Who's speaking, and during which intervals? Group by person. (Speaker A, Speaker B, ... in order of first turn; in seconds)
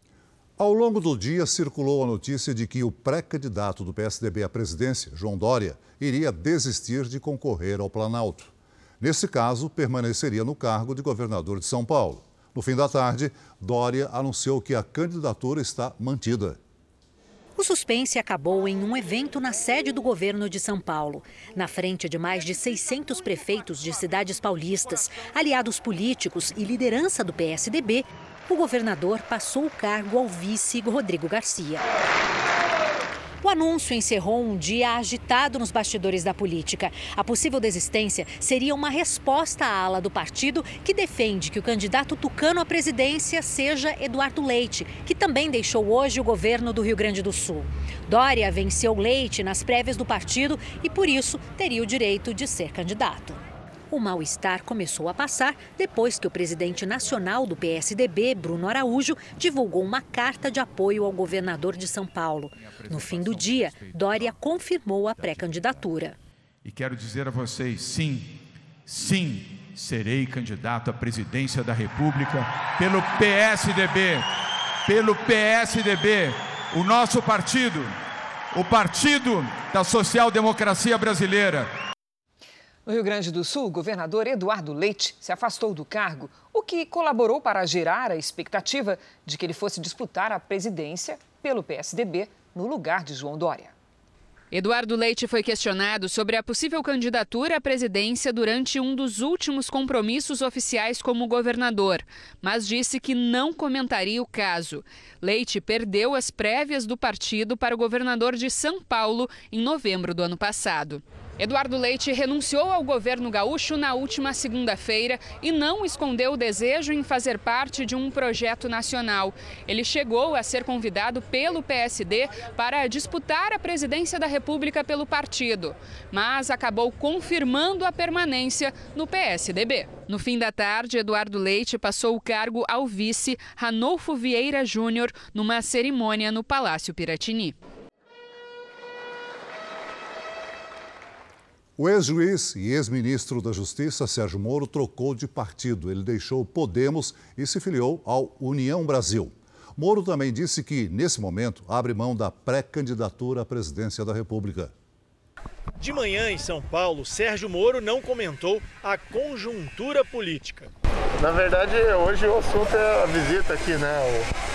Speaker A: 0.6-16.6, 141.8-154.7
Speaker B: 17.6-31.9, 33.4-66.2
Speaker C: 62.6-64.5, 65.2-65.6, 66.6-74.3, 74.8-78.0, 78.5-81.7
Speaker D: 82.8-93.7
Speaker E: 94.5-137.6
Speaker F: 155.8-160.7
Speaker G: 161.2-164.2